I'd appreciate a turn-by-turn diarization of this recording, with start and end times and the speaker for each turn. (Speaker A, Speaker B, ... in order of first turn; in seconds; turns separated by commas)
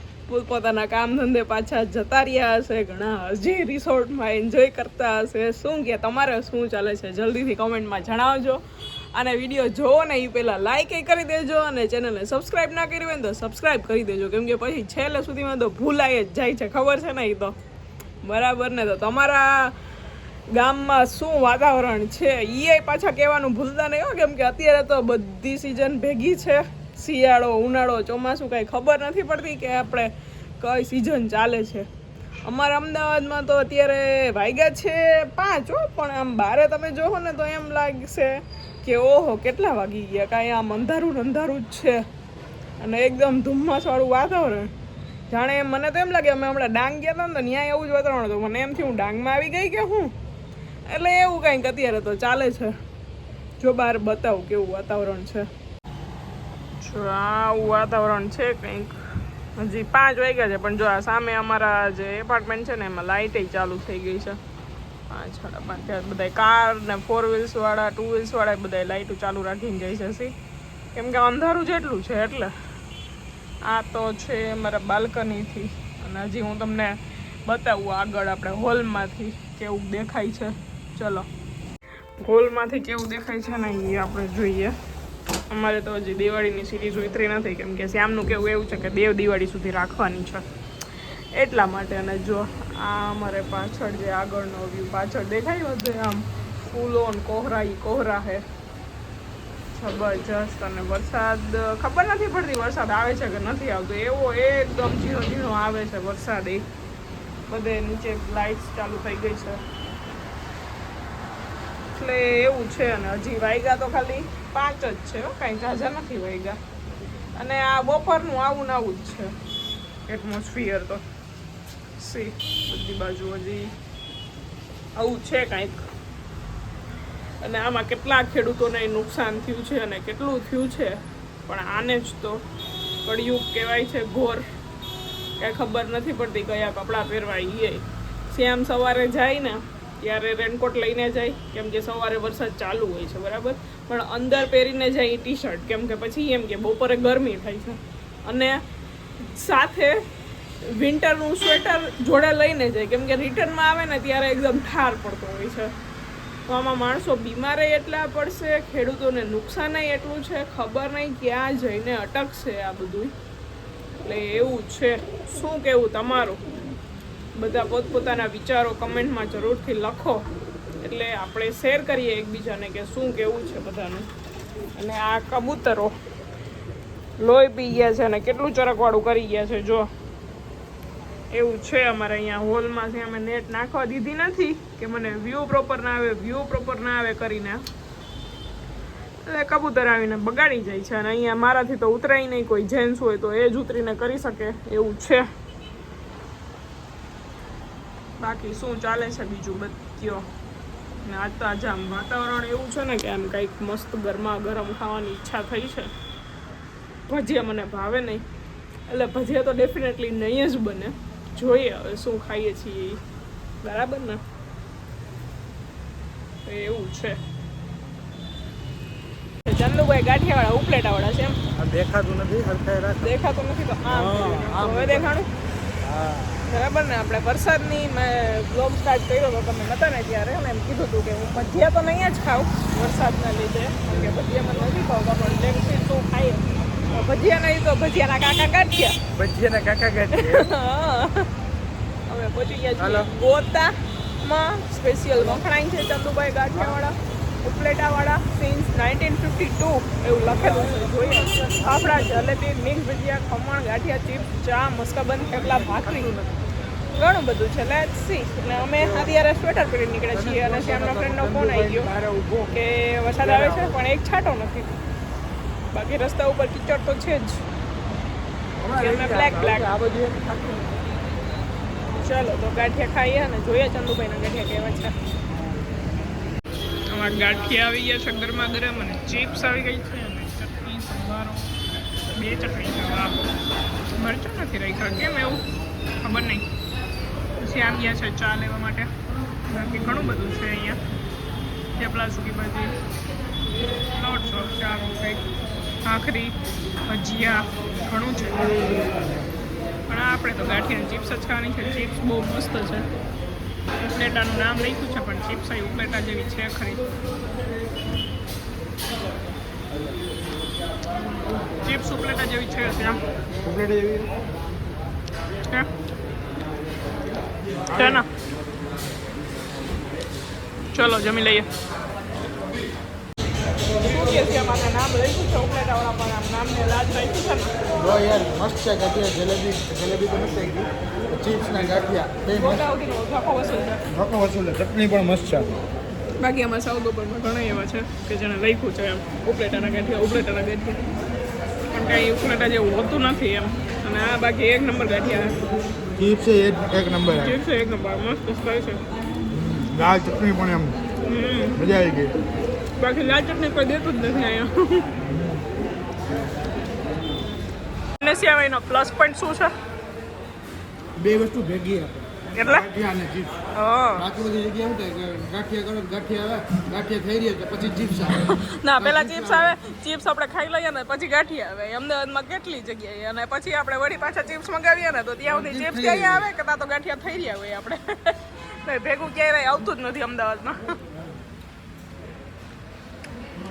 Speaker A: 0.3-8.6, Speaker A: 9.1-17.5, Speaker A: 18.2-19.7, Speaker A: 20.5-31.9, Speaker A: 32.5-42.0, Speaker A: 42.8-44.7, Speaker A: 45.3-50.1, Speaker A: 50.9-52.8, Speaker A: 53.6-55.5, Speaker A: 56.8-58.9, Speaker A: 59.6-64.4, Speaker A: 65.1-70.3, Speaker A: 70.9-72.5, Speaker A: 73.6-81.3, Speaker A: 82.2-84.7, Speaker A: 85.5-90.4, Speaker A: 91.3-98.4, Speaker A: 99.7-106.6, Speaker A: 107.5-109.6, Speaker A: 111.9-116.6, Speaker A: 117.3-119.3, Speaker A: 120.1-121.0, Speaker A: 122.0-123.7, Speaker A: 124.9-125.8, Speaker A: 127.4-132.4, Speaker A: 133.0-134.4, Speaker A: 135.4-148.6, Speaker A: 149.2-150.0, Speaker A: 150.6-155.7, Speaker A: 156.5-163.1, Speaker A: 164.0-166.4, Speaker A: 167.3-170.2, Speaker A: 170.8-174.1, Speaker A: 174.7-175.9, Speaker A: 177.2-179.9, Speaker A: 181.3-187.6, Speaker A: 189.2-195.3, Speaker A: 198.2-200.2, Speaker A: 201.0-205.9, Speaker A: 207.1-208.2, Speaker A: 208.9-213.0, Speaker A: 213.6-214.2, Speaker A: 216.4-217.2, Speaker A: 219.4-221.4, Speaker B: 221.5-223.1, Speaker A: 223.0-225.3, Speaker B: 223.9-225.1, Speaker B: 225.8-226.4, Speaker A: 226.5-239.0, Speaker B: 239.1-240.5, Speaker A: 240.1-241.3, Speaker A: 242.1-256.1, Speaker B: 242.8-243.1, Speaker B: 246.5-246.8, Speaker B: 250.3-251.7, Speaker B: 255.7-256.4, Speaker A: 256.9-261.9, Speaker B: 260.1-262.5, Speaker A: 262.5-264.8, Speaker B: 263.2-263.8, Speaker A: 265.7-267.4, Speaker B: 268.6-270.8, Speaker A: 268.8-269.7, Speaker A: 271.9-274.9, Speaker A: 276.9-281.5, Speaker A: 282.1-283.3, Speaker A: 284.0-285.4, Speaker A: 286.0-286.4, Speaker A: 287.4-288.9, Speaker A: 289.5-290.8, Speaker A: 291.8-292.7, Speaker A: 293.9-295.2, Speaker A: 295.8-298.9, Speaker A: 299.9-302.9, Speaker A: 303.8-306.9, Speaker A: 311.5-313.0, Speaker B: 313.4-314.1, Speaker B: 317.7-318.0, Speaker A: 317.7-318.1, Speaker A: 320.7-321.5, Speaker A: 323.8-327.5, Speaker B: 327.7-332.6, Speaker A: 332.3-333.8, Speaker B: 333.9-335.5, Speaker A: 336.2-340.8, Speaker A: 341.7-345.4, Speaker B: 346.0-347.4, Speaker A: 347.1-348.8, Speaker B: 349.3-350.8, Speaker A: 351.0-351.6, Speaker B: 351.5-352.1, Speaker A: 352.8-354.9, Speaker A: 358.0-359.5, Speaker B: 361.0-363.4, Speaker A: 362.3-362.7, Speaker A: 363.5-364.0, Speaker B: 363.9-369.5, Speaker A: 368.1-380.8, Speaker B: 375.3-376.2